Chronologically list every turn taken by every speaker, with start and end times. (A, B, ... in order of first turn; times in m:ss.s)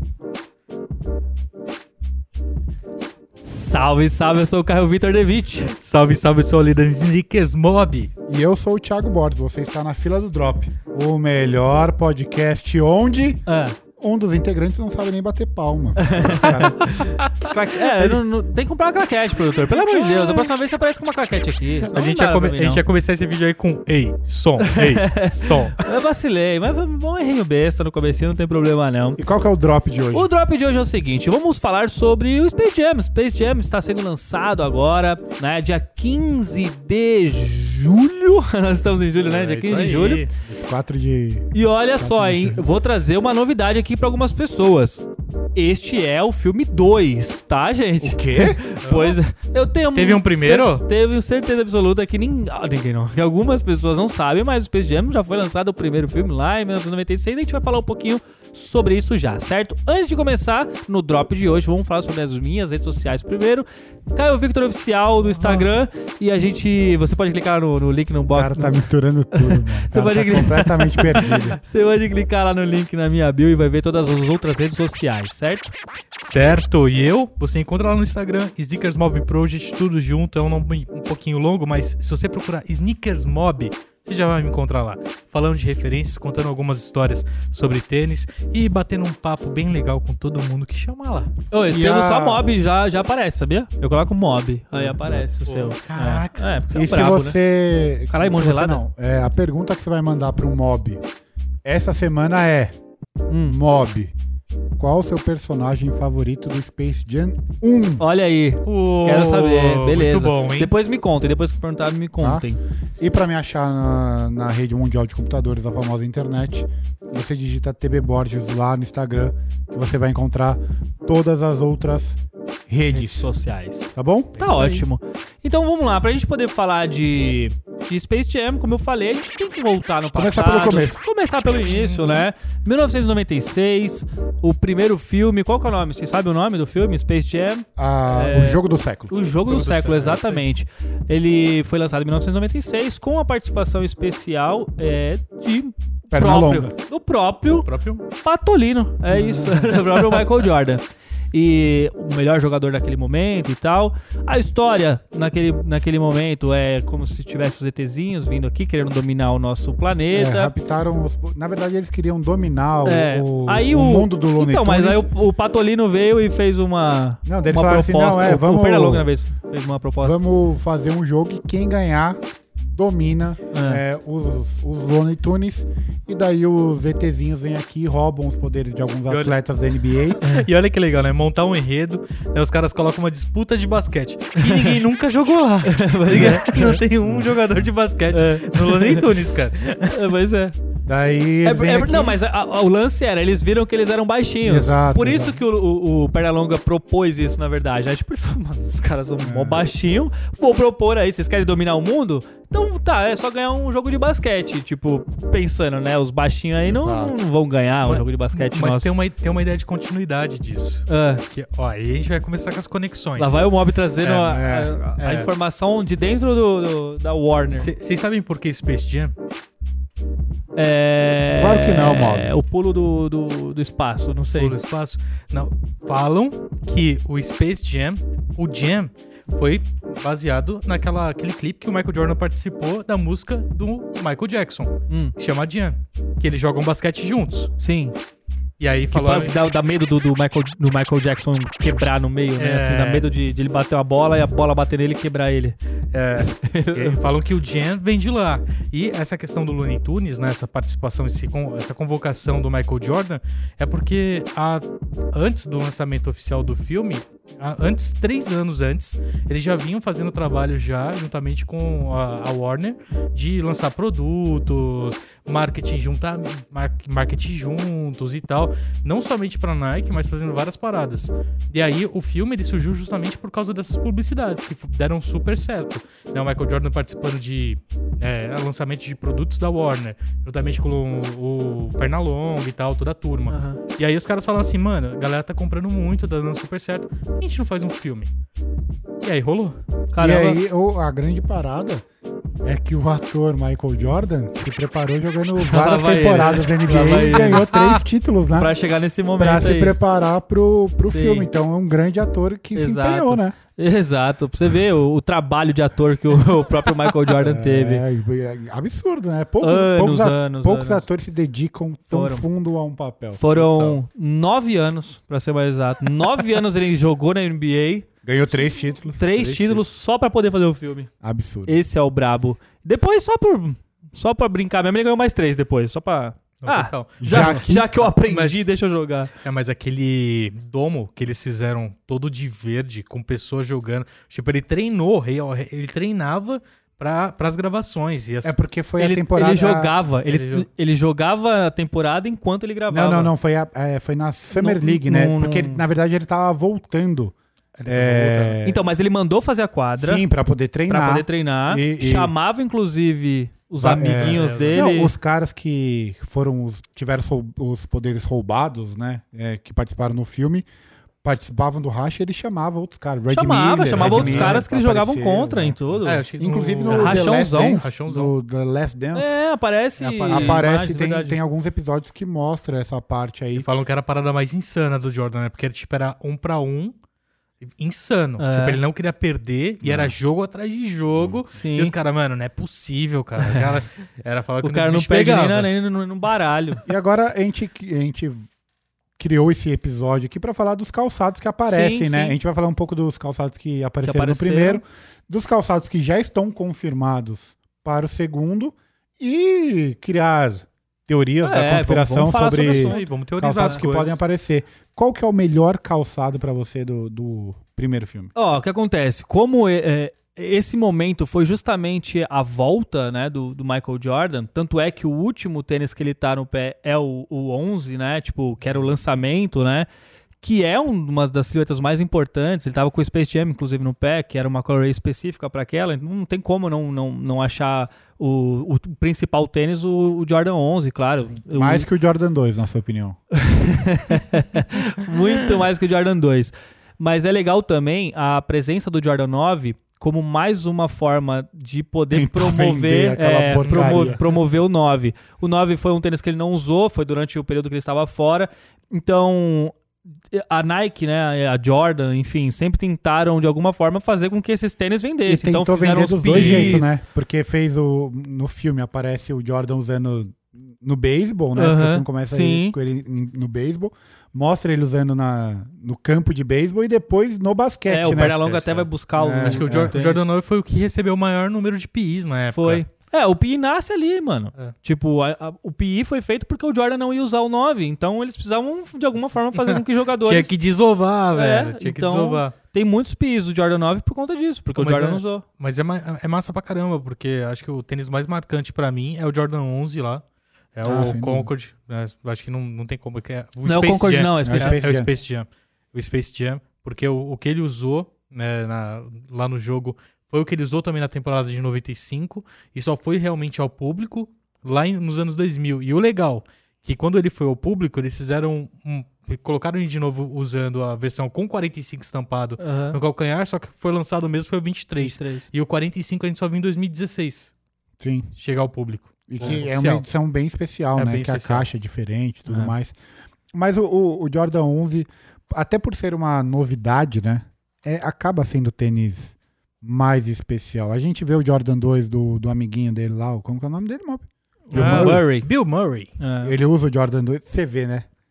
0:03.4-0:05.7 A
0:05.7-0:08.1 B
0:08.3-0:13.4 C
0:13.5-0:13.8 A
0:14.0-0:16.8 C
0:16.0-0:22.8 A
0:16.9-0:17.3 B
0:21.9-0:25.8 B
0:24.6-0:29.2 A
0:29.2-0:30.3 C
0:30.1-0:40.3 A
0:39.1-0:40.3 B
0:40.4-0:42.7 C
0:41.5-1:15.7 A
0:48.0-0:48.6 C
0:48.8-0:49.2 B
0:49.9-0:50.8 B
1:05.4-1:05.7 C
1:08.3-1:11.6 C
1:16.2-1:31.3 B
1:31.5-1:37.4 A
1:31.7-1:32.5 C
1:34.7-1:35.3 C
1:35.4-1:36.5 B
1:36.7-1:41.0 C
1:38.1-1:38.8 A
1:41.6-1:42.7 C
1:43.3-1:43.6 A
1:43.5-1:44.1 C
1:44.8-1:48.0 C
1:48.0-1:52.6 A
1:48.6-1:50.7 B
1:52.2-1:52.5 C
1:53.0-2:03.3 C
2:02.9-2:40.5 A
2:03.9-2:04.4 C
2:04.4-2:04.8 B
2:10.1-2:11.0 C
2:11.6-2:12.2 B
2:17.8-2:19.1 C
2:19.4-2:20.4 B
2:26.1-2:26.7 C
2:27.6-2:28.0 B
2:29.1-2:29.7 C
2:40.1-2:45.0 C
2:42.8-2:50.2 A
2:47.2-2:49.1 C
2:50.0-3:00.2 C
2:53.5-2:53.8 A
2:59.1-2:59.4 B
2:59.9-3:10.1 B
3:04.4-3:04.8 A
3:05.6-3:06.8 A
3:06.5-3:07.2 C
3:08.1-3:09.1 A
3:09.8-3:10.6 A
3:10.8-3:12.2 C
3:11.4-3:28.9 A
3:14.4-3:15.4 C
3:19.2-3:19.6 C
3:26.7-3:27.1 C
3:27.8-3:33.4 B
3:30.9-3:31.2 A
3:33.2-3:37.7 A
3:34.0-3:34.4 B
3:34.2-3:34.7 C
3:35.0-3:35.3 B
3:37.5-3:39.1 B
3:40.6-3:44.6 A
3:41.4-3:42.3 C
3:44.3-3:57.5 B
3:54.9-3:55.1 A
3:57.6-3:58.0 A
3:58.6-3:59.3 B
3:58.9-4:05.6 A
4:02.4-4:03.0 B
4:05.9-4:48.1 B
4:06.2-4:07.0 A
4:43.3-4:43.6 A
4:49.0-4:49.6 B
4:49.9-4:50.4 A
4:50.0-4:51.8 C
4:52.4-4:58.5 C
4:55.4-4:57.5 A
4:57.1-4:57.8 B
4:58.4-4:59.8 A
4:59.2-5:03.4 C
5:00.9-5:01.3 A
5:02.5-5:07.8 A
5:07.1-5:13.2 C
5:09.4-5:10.8 A
5:11.9-5:12.2 A
5:13.1-5:17.9 A
5:13.3-5:13.8 B
5:18.0-5:19.6 C
5:19.0-5:20.9 A
5:21.0-5:21.6 C
5:21.4-5:29.1 A
5:26.4-5:28.5 B
5:27.0-5:27.6 C
5:29.1-5:38.3 B
5:38.2-5:39.7 C
5:38.8-5:43.1 A
5:40.0-5:40.5 B
5:42.7-5:47.1 C
5:44.3-5:45.6 A
5:47.6-5:48.4 B
5:47.6-5:48.6 C
5:48.4-5:50.0 A
5:49.8-5:52.1 C
5:50.7-5:54.9 A
5:53.6-6:00.5 C
5:53.7-5:54.7 B
6:01.0-6:09.2 C
6:03.1-6:06.0 A
6:03.7-6:04.4 B
6:05.8-6:08.1 B
6:06.7-6:07.6 A
6:08.9-6:11.2 A
6:09.8-6:10.4 B
6:10.1-6:13.5 C
6:13.3-6:16.8 B
6:17.4-6:25.5 B
6:18.2-6:18.6 A
6:19.6-6:20.0 C
6:21.3-6:21.7 A
6:23.2-6:23.6 A
6:24.4-6:26.6 A
6:26.6-6:28.3 C
6:29.0-6:48.1 C
6:31.5-6:32.2 A
6:33.8-6:34.6 A
6:41.2-6:42.9 A
6:42.4-6:44.0 B
6:48.2-6:59.7 A
7:00.2-7:11.6 A
7:11.3-7:13.0 C
7:13.1-7:29.6 A
7:21.9-7:24.0 C
7:30.1-7:36.7 A
7:35.0-7:49.7 C
7:36.1-7:36.7 B
7:41.4-7:42.6 A
7:47.7-7:50.0 A
7:49.2-7:52.6 B
7:52.3-8:00.3 A
7:59.3-8:02.3 B
8:01.1-8:05.2 A
8:04.5-8:10.0 B
8:10.5-8:37.3 B
8:10.6-8:11.3 C
8:13.4-8:14.6 A
8:14.2-8:14.9 C
8:32.4-8:32.8 A
8:34.8-8:35.3 A
8:37.8-8:38.1 C
8:38.2-8:39.8 B
8:39.1-8:42.7 C
8:40.8-8:41.5 B
8:42.3-8:42.5 A
8:43.3-8:55.0 C
8:54.5-8:55.9 B
8:54.5-8:55.3 A
8:56.0-8:56.3 A
8:56.2-8:57.9 C